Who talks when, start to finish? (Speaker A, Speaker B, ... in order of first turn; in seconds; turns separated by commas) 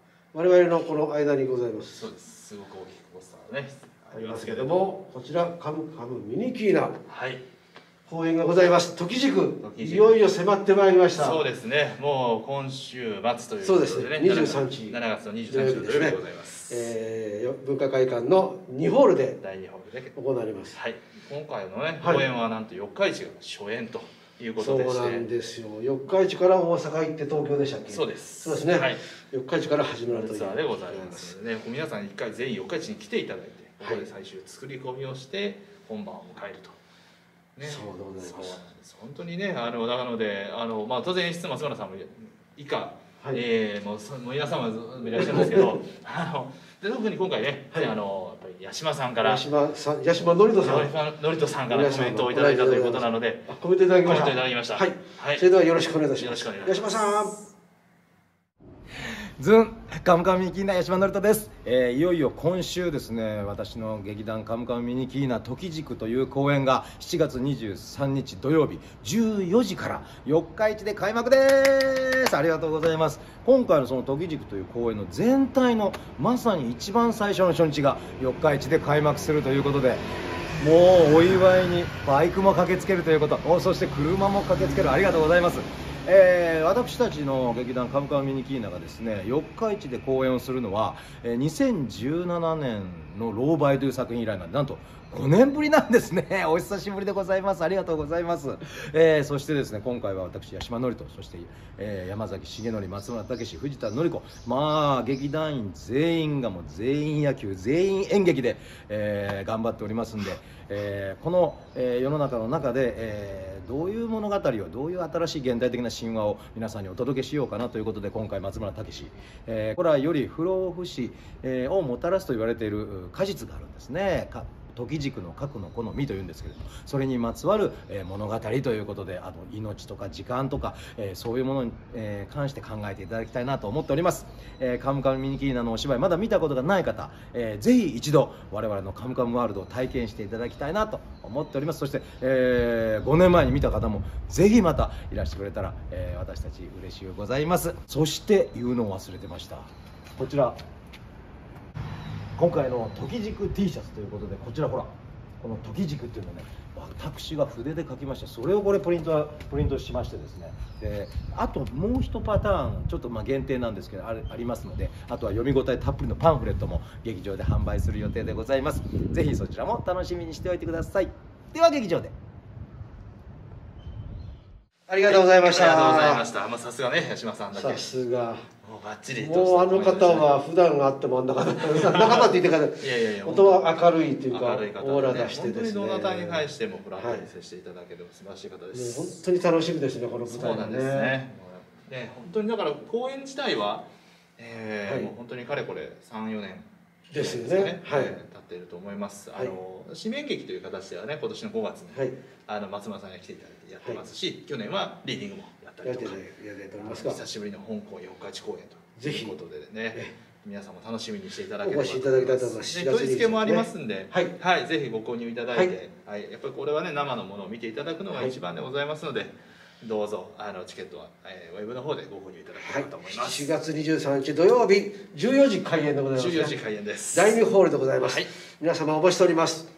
Speaker A: 0.3-2.1, Speaker B: 1.9-4.9, Speaker A: 4.1-7.0, Speaker B: 7.1-7.4, Speaker A: 8.1-11.4, Speaker B: 9.6-10.2, Speaker B: 11.1-16.9, Speaker A: 13.6-19.4, Speaker B: 19.4-20.1, Speaker A: 20.1-20.8, Speaker B: 20.7-25.2, Speaker A: 22.0-22.2, Speaker A: 24.6-31.3, Speaker B: 27.9-29.0, Speaker B: 30.1-36.8, Speaker A: 33.8-34.0, Speaker B: 37.5-49.5, Speaker A: 37.6-38.5, Speaker A: 45.1-45.7, Speaker A: 49.2-50.9, Speaker B: 50.6-53.5, Speaker A: 51.7-57.4, Speaker B: 54.0-55.5, Speaker B: 56.1-57.3, Speaker C: 59.4-80.1, Speaker C: 80.6-150.6, Speaker C: 152.3-172.1, Speaker A: 174.9-176.2, Speaker B: 175.1-177.8, Speaker A: 177.5-178.5, Speaker B: 178.6-180.3, Speaker A: 179.1-187.2, Speaker B: 181.7-183.7, Speaker B: 184.3-189.2, Speaker A: 188.7-191.1, Speaker B: 190.3-193.9, Speaker B: 194.4-206.2, Speaker A: 194.8-195.1, Speaker A: 197.1-198.2, Speaker A: 205.8-207.2, Speaker B: 206.8-223.5, Speaker A: 208.9-209.3, Speaker A: 211.6-214.3, Speaker A: 222.6-226.6, Speaker B: 226.1-227.4, Speaker A: 227.1-229.7, Speaker B: 228.0-228.3